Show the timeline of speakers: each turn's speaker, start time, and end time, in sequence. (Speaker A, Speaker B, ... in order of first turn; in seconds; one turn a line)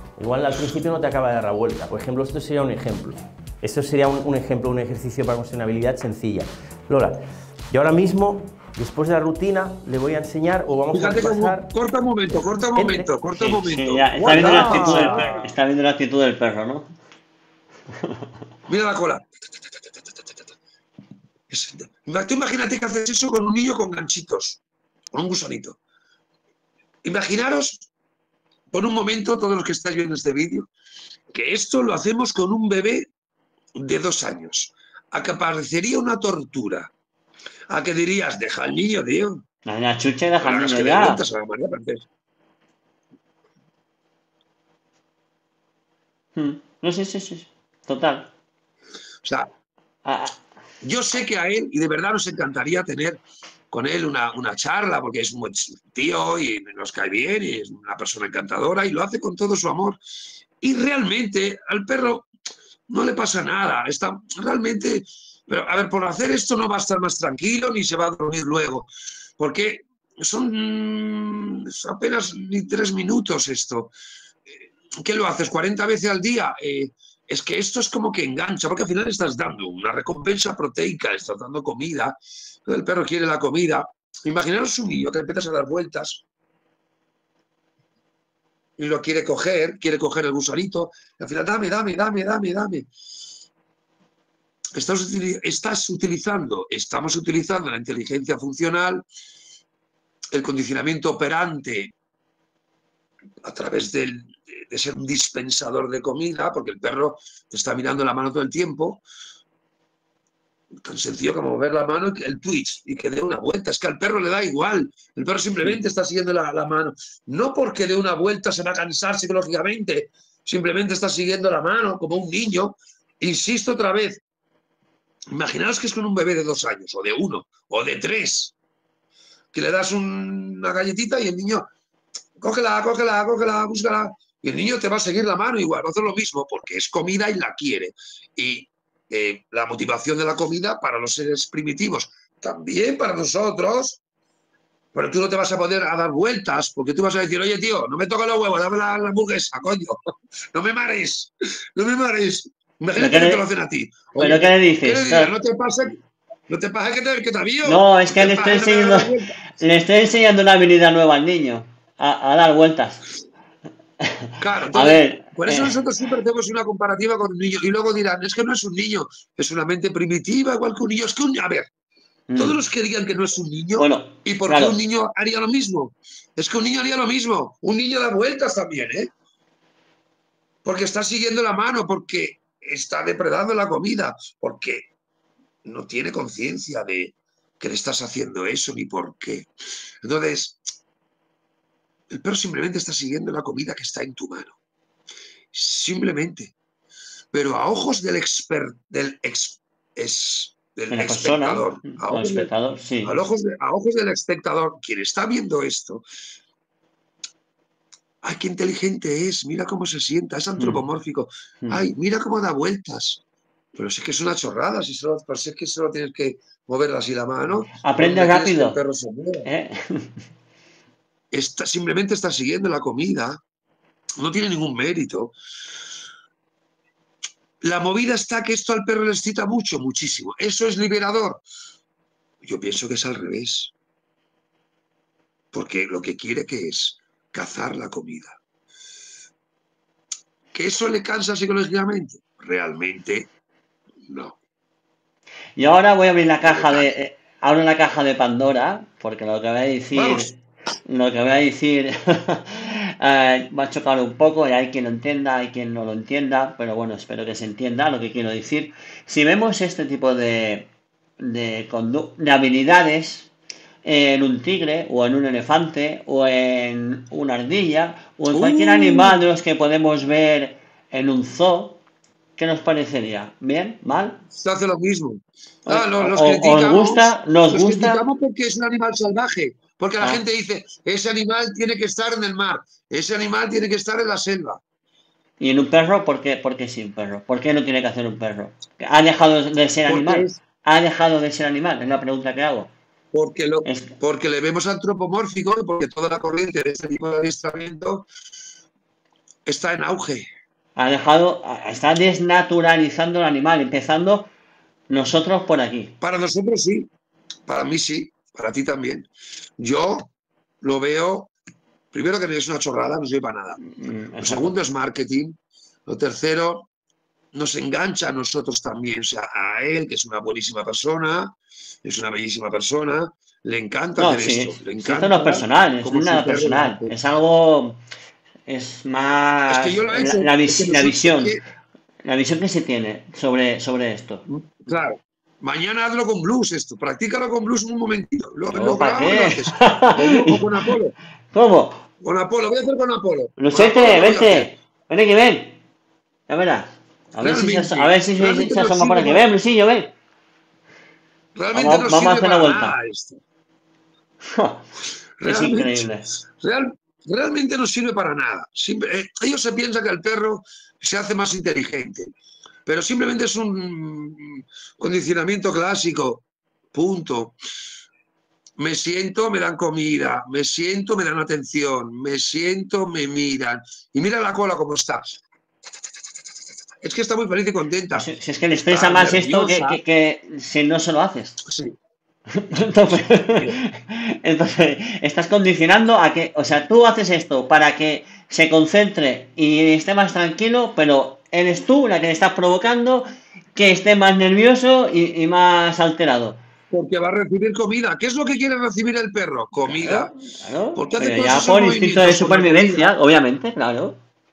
Speaker A: 0.2-11.7
Speaker B: 10.9-15.4
Speaker A: 12.8-13.1
Speaker C: 13.3-16.9
Speaker A: 14.2-15.5
Speaker B: 18.7-19.3
Speaker B: 21.5-24.6
Speaker B: 25.1-25.8
Speaker B: 27.0-27.9
Speaker B: 28.7-30.7
Speaker B: 31.3-33.1
Speaker B: 33.8-36.9
Speaker B: 37.7-39.4
Speaker C: 39.7-41.2
Speaker B: 40.4-42.1
Speaker C: 46.4-48.3
Speaker B: 49.2-49.5
Speaker C: 50.0-50.4
Speaker B: 50.8-53.2
Speaker B: 53.7-60.0
Speaker B: 60.6-62.3
Speaker B: 62.9-73.9
Speaker B: 75.0-86.2
Speaker B: 88.8-92.9
Speaker B: 94.8-99.0
Speaker B: 100.3-101.9
Speaker B: 103.4-109.0
Speaker B: 110.8-124.2
Speaker B: 125.3-128.5
Speaker B: 129.5-131.7
Speaker B: 132.4-144.0
Speaker B: 144.9-150.0
Speaker B: 150.5-159.4
Speaker C: 152.9-153.4
Speaker C: 154.2-155.3
Speaker C: 157.6-163.0
Speaker C: 164.0-165.7
Speaker B: 164.4-171.7
Speaker C: 172.3-172.6
Speaker B: 172.4-179.1
Speaker C: 173.8-174.8
Speaker B: 180.7-184.9
Speaker B: 185.7-189.5
Speaker B: 190.0-190.6
Speaker B: 192.1-194.6
Speaker B: 195.5-196.5
Speaker B: 197.3-202.5
Speaker C: 200.9-203.2
Speaker B: 203.0-206.1
Speaker B: 208.2-213.2
Speaker C: 210.6-210.8
Speaker B: 213.8-219.5
Speaker C: 217.8-218.8
Speaker C: 219.4-220.1
Speaker B: 221.3-223.4
Speaker B: 224.2-225.3
Speaker B: 227.6-231.4
Speaker B: 232.4-233.7
Speaker B: 235.5-238.4
Speaker B: 240.5-243.3
Speaker B: 244.1-244.4
Speaker C: 245.6-260.7
Speaker B: 246.5-246.8
Speaker B: 249.9-250.3
Speaker C: 261.2-263.3
Speaker C: 263.8-271.8
Speaker B: 268.3-269.2
Speaker C: 272.4-274.2
Speaker B: 274.3-284.6
Speaker C: 275.7-278.0
Speaker C: 285.4-292.7
Speaker B: 289.9-290.4
Speaker B: 293.1-298.1
Speaker C: 293.6-294.0
Speaker B: 299.5-300.3
Speaker C: 300.8-304.3
Speaker C: 304.9-305.9
Speaker B: 306.0-306.9
Speaker B: 307.5-310.1
Speaker B: 310.6-311.3
Speaker B: 311.9-313.6
Speaker C: 313.7-314.6
Speaker B: 314.2-316.7
Speaker B: 317.3-326.9
Speaker C: 324.0-327.8
Speaker C: 328.5-331.4
Speaker B: 329.5-331.4
Speaker C: 332.1-334.2
Speaker B: 334.3-340.9
Speaker C: 338.5-340.4
Speaker C: 341.3-341.8
Speaker B: 342.0-344.5
Speaker C: 343.4-345.6
Speaker C: 346.3-349.9
Speaker B: 347.2-349.3
Speaker B: 351.4-353.2
Speaker C: 351.5-352.8
Speaker C: 354.3-354.7
Speaker B: 355.2-355.8
Speaker C: 355.2-356.1
Speaker B: 356.4-362.1
Speaker B: 362.7-367.4
Speaker B: 368.6-375.1
Speaker B: 376.8-378.1
Speaker C: 378.0-381.4
Speaker B: 378.7-379.8
Speaker B: 381.5-381.8
Speaker C: 382.3-396.4
Speaker B: 382.9-383.6
Speaker B: 396.7-400.1
Speaker C: 399.6-404.0
Speaker B: 400.8-402.9